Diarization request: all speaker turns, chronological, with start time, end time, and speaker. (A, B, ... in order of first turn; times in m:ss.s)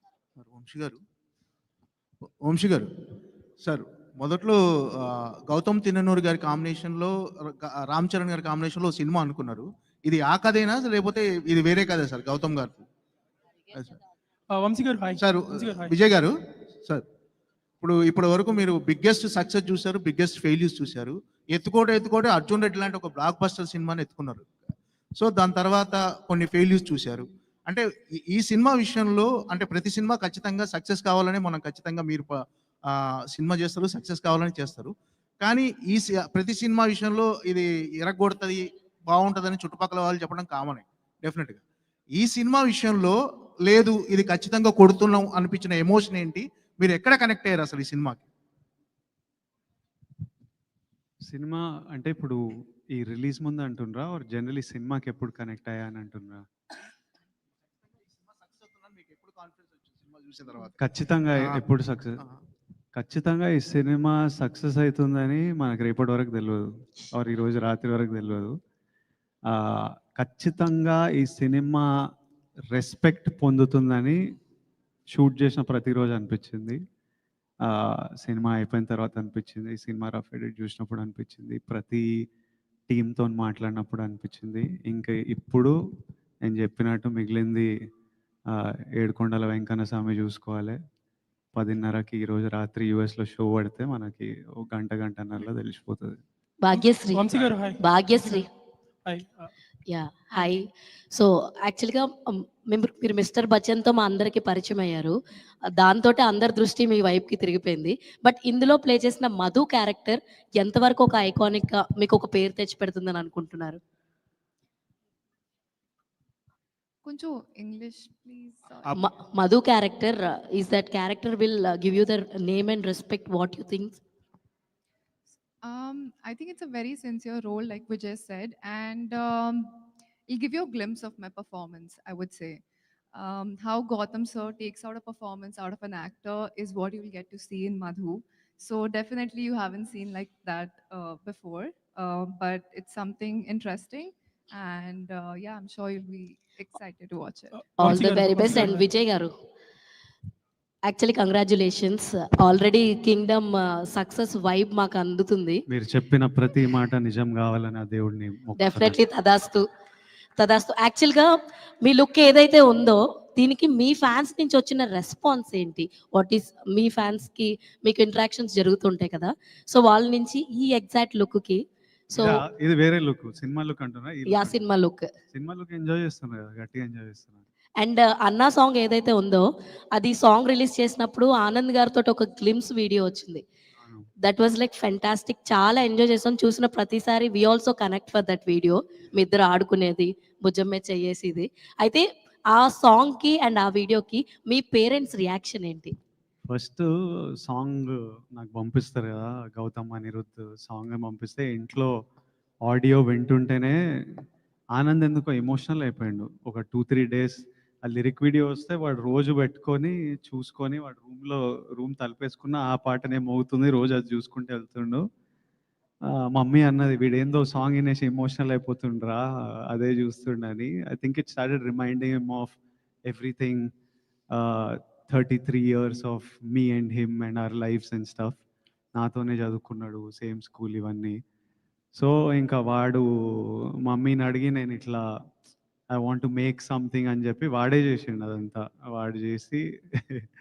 0:00.4-0:01.0 A
0:02.4-0:02.9 A
0:03.6-0:12.9 A
0:14.5-0:15.9 B
0:15.2-0:16.3 A
0:17.8-0:24.5 A
0:25.2-0:32.4 A
0:32.9-0:41.6 A
0:42.2-0:48.2 A
0:51.2-0:52.4 C
0:52.9-0:56.4 C
0:57.9-1:00.8 A
1:00.8-1:02.2 C
1:03.0-1:08.5 C
1:09.5-1:11.9 C
1:12.7-1:14.2 C
1:15.1-1:16.8 C
1:17.6-1:22.1 C
1:22.9-1:25.7 C
1:26.4-1:27.7 C
1:28.5-1:30.8 C
1:31.6-1:36.2 C
1:36.6-1:38.5 D
1:36.7-1:38.4 B
1:39.0-1:39.5 B
1:39.9-1:45.1 D
1:45.7-1:53.8 D
1:57.0-1:58.9 E
1:59.0-2:04.0 D
2:05.6-2:27.7 E
2:27.5-2:28.8 B
2:27.8-2:29.3 D
2:30.8-2:35.6 D
2:35.7-2:39.0 C
2:38.6-2:39.6 D
2:40.4-2:41.3 D
2:41.8-2:51.6 D
2:52.1-2:52.4 D
2:52.2-2:54.7 C
2:54.3-2:55.1 D
2:55.3-2:57.4 C
2:57.8-3:03.4 D
3:03.8-3:04.1 C
3:04.2-3:15.9 D
3:16.5-3:16.8 C
3:17.4-3:21.9 C
3:22.6-3:24.2 C
3:24.7-3:35.0 C
3:36.1-3:42.6 C
3:43.1-3:43.7 C
3:44.3-3:48.4 C
3:49.0-3:51.2 C
3:51.9-3:55.0 C
3:55.9-4:00.3 C